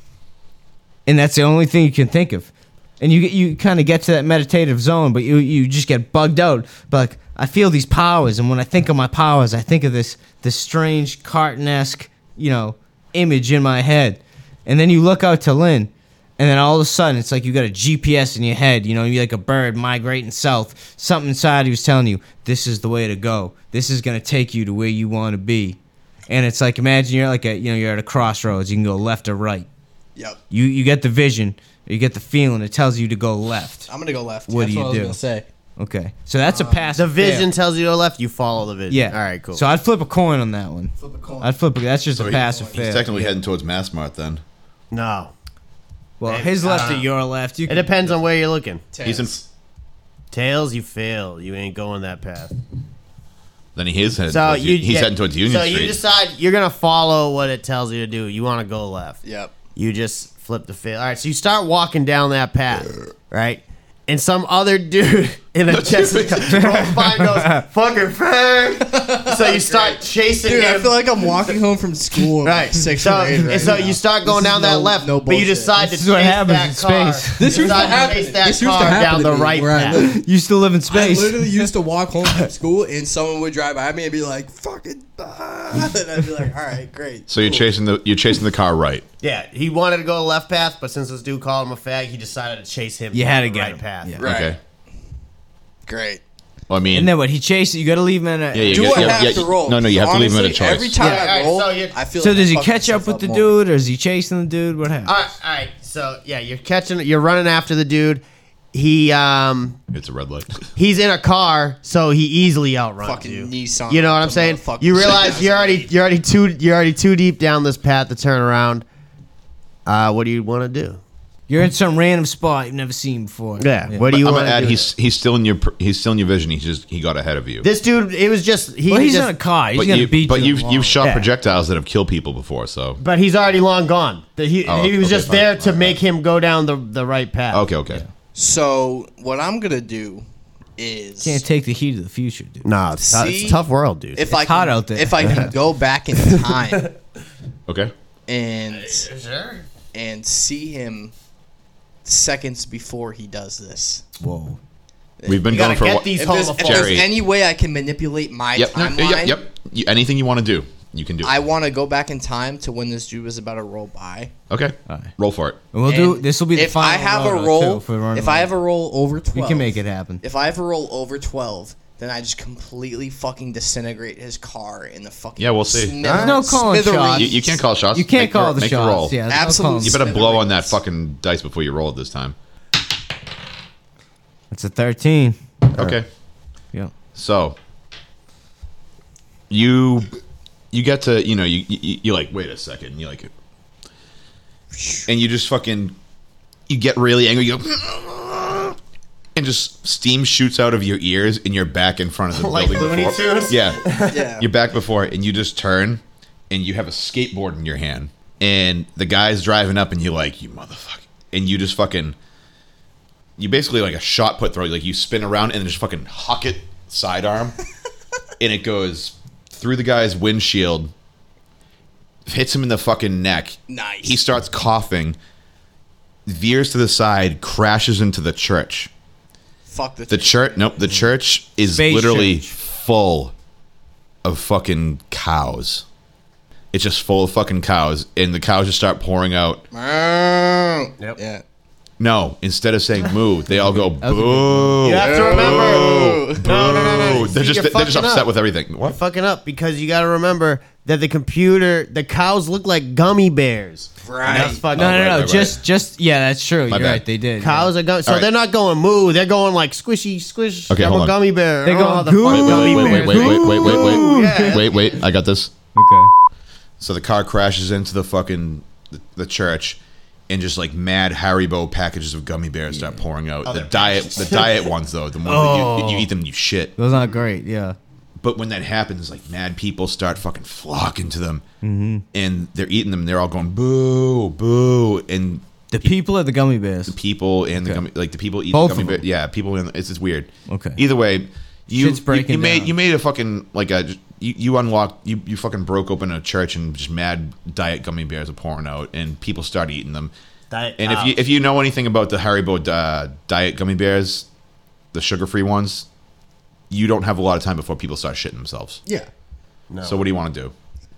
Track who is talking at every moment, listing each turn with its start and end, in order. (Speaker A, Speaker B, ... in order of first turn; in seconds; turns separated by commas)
Speaker A: 1.1-2.5, Speaker A: 3.0-25.8, Speaker A: 26.3-29.7, Speaker A: 30.5-33.9, Speaker B: 33.9-35.5, Speaker A: 34.5-35.2, Speaker A: 35.8-37.5, Speaker B: 36.5-36.9, Speaker C: 37.0-39.6, Speaker A: 38.9-43.4, Speaker B: 41.0-41.5, Speaker D: 42.1-44.4, Speaker B: 42.3-42.7, Speaker C: 44.9-45.3, Speaker A: 46.2-48.1, Speaker C: 46.2-47.1, Speaker C: 47.7-48.9, Speaker B: 48.9-49.4, Speaker D: 49.0-49.4, Speaker C: 50.3-52.5, Speaker D: 53.8-56.0, Speaker C: 54.3-59.2, Speaker B: 59.2-59.5, Speaker C: 59.8-71.6, Speaker D: 65.7-66.7, Speaker A: 66.5-67.7, Speaker B: 68.8-75.7, Speaker C: 72.4-80.0, Speaker A: 75.8-77.6, Speaker B: 77.4-80.2, Speaker A: 80.0-81.7, Speaker B: 80.9-87.6, Speaker D: 87.3-89.0, Speaker C: 89.2-94.1, Speaker A: 93.1-94.3, Speaker B: 94.2-94.6, Speaker D: 94.2-94.6, Speaker B: 95.9-96.2, Speaker D: 96.7-97.1, Speaker A: 96.9-99.3, Speaker D: 98.5-101.0, Speaker B: 98.7-103.5, Speaker A: 101.0-101.3, Speaker C: 101.0-102.0, Speaker A: 102.2-105.2, Speaker C: 105.0-108.2, Speaker C: 108.7-109.8, Speaker D: 109.9-110.7, Speaker C: 110.8-118.8, Speaker B: 113.0-115.9, Speaker C: 119.9-121.0, Speaker A: 121.5-124.1, Speaker C: 123.6-124.9, Speaker D: 124.0-127.7, Speaker C: 127.6-129.4, Speaker A: 128.9-131.0, Speaker D: 129.8-133.0, Speaker C: 131.0-131.3, Speaker C: 133.0-137.7, Speaker D: 134.7-136.0, Speaker D: 137.5-138.0, Speaker B: 138.3-140.2, Speaker B: 140.8-141.4, Speaker A: 141.2-142.7, Speaker C: 142.7-144.3, Speaker B: 143.0-143.6, Speaker B: 144.2-146.9, Speaker A: 144.3-145.5, Speaker B: 148.3-149.1, Speaker C: 148.7-149.7, Speaker B: 149.9-151.1, Speaker B: 152.1-154.0, Speaker A: 154.2-154.6, Speaker B: 155.2-155.5, Speaker D: 155.3-157.1, Speaker C: 155.5-157.0, Speaker B: 156.1-159.4, Speaker D: 158.6-161.3, Speaker B: 161.2-164.3, Speaker D: 164.5-165.6, Speaker A: 165.7-168.5, Speaker B: 165.9-177.6, Speaker A: 169.3-170.2, Speaker D: 175.4-176.0, Speaker C: 176.0-176.4, Speaker A: 176.1-177.4, Speaker D: 177.2-182.3, Speaker A: 177.9-180.0, Speaker B: 179.3-180.8, Speaker A: 184.5-185.4, Speaker D: 185.7-186.1, Speaker D: 187.2-187.6, Speaker D: 189.5-190.1, Speaker D: 190.7-193.3, Speaker B: 194.7-195.1, Speaker D: 195.1-195.9, Speaker D: 196.7-198.8, Speaker D: 199.4-203.8, Speaker C: 202.3-204.2, Speaker B: 204.1-204.5, Speaker D: 204.4-212.2, Speaker D: 213.4-217.6, Speaker D: 218.4-220.9, Speaker D: 222.3-225.2, Speaker B: 223.7-224.2, Speaker D: 226.3-228.9, Speaker B: 229.7-230.7, Speaker D: 230.1-233.3, Speaker A: 231.7-232.5, Speaker D: 234.2-235.8, Speaker D: 236.7-239.6, Speaker B: 239.7-241.4, Speaker D: 242.0-249.0, Speaker A: 243.5-244.8, Speaker C: 244.8-248.3, Speaker B: 245.0-246.5, Speaker C: 248.8-255.2, Speaker B: 254.0-254.6, Speaker A: 254.3-257.6, Speaker D: 254.7-255.6, Speaker D: 256.7-257.0, Speaker C: 257.4-265.0, Speaker D: 260.7-261.1, Speaker A: 261.6-264.6, Speaker D: 262.3-265.5, Speaker A: 265.8-266.1, Speaker D: 266.8-269.8, Speaker D: 270.3-276.7, Speaker A: 272.7-273.0, Speaker C: 273.5-274.6, Speaker A: 275.3-276.1, Speaker A: 276.8-277.8, Speaker D: 278.2-281.4, Speaker A: 281.6-282.0, Speaker D: 282.1-285.9, Speaker A: 285.7-287.0, Speaker D: 286.9-300.1, Speaker A: 288.5-289.0, Speaker A: 290.5-290.8, Speaker A: 291.7-292.7, Speaker C: 300.5-301.2, Speaker D: 300.8-304.3, Speaker D: 304.9-305.9, Speaker D: 306.7-308.8, Speaker C: 309.7-310.0, Speaker D: 309.8-310.5